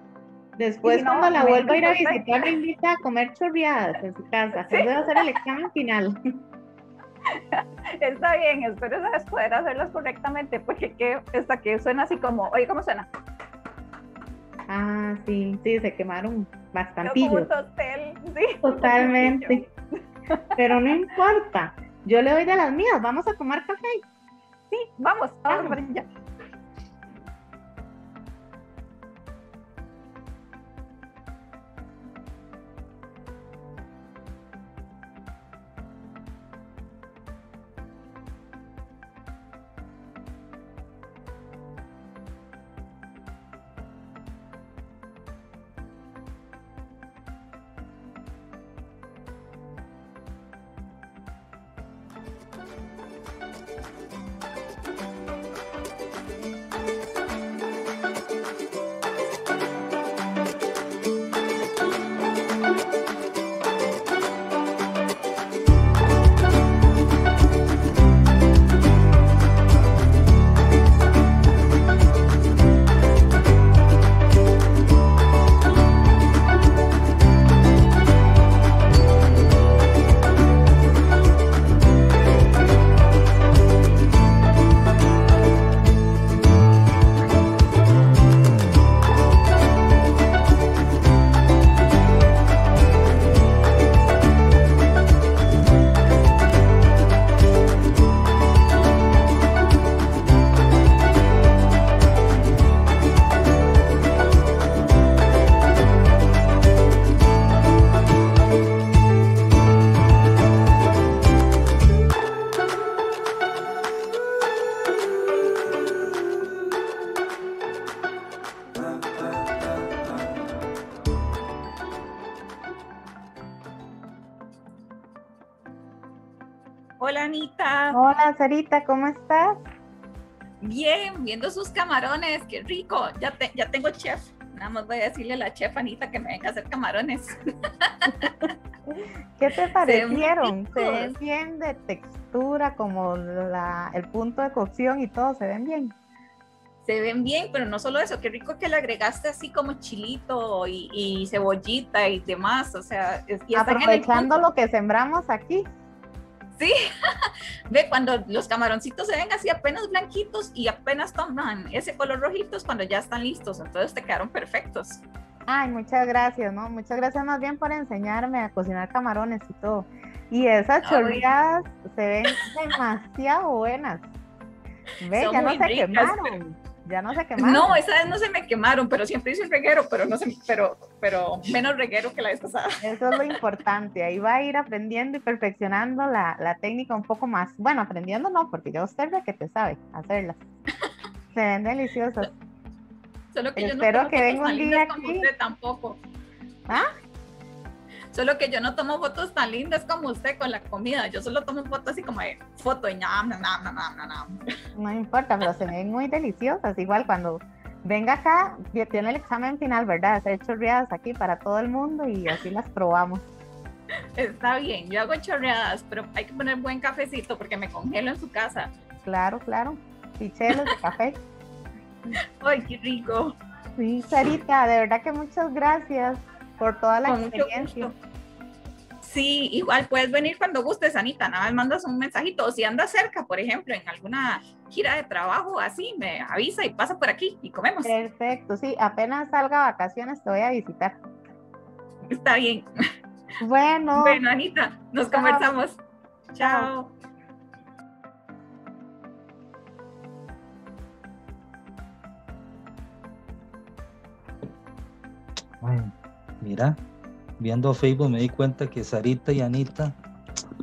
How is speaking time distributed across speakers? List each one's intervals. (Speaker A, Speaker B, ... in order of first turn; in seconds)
Speaker A: 0.6-6.2, 14.7-17.5, 18.6-19.6, 20.6-24.0, 25.5-25.8, 127.9-129.6, 138.9-145.9, 153.5-155.7, 165.5-174.1, 175.0-177.8, 182.8-190.4, 191.3-192.3, 193.6-195.3, 204.8-213.3, 219.1-221.2, 223.8-227.9, 237.8-241.0, 243.4-244.2, 245.1-245.5, 246.4-246.7
Speaker B: 0.8-2.3, 4.6-5.1, 7.3-13.1, 17.0-19.7, 20.3-21.0, 24.7-26.1, 127.0-128.0, 130.6-138.5, 139.8-141.1, 146.8-154.4, 156.6-165.1, 170.8-171.3, 175.1-176.3, 177.4-183.4, 193.3-196.0, 198.1-204.4, 214.2-218.7, 220.5-220.8, 222.1-223.3, 227.1-227.9, 229.0-238.0, 242.1-242.7, 243.9-245.8, 246.3-246.9
Speaker C: 255.6-256.8, 257.4-260.4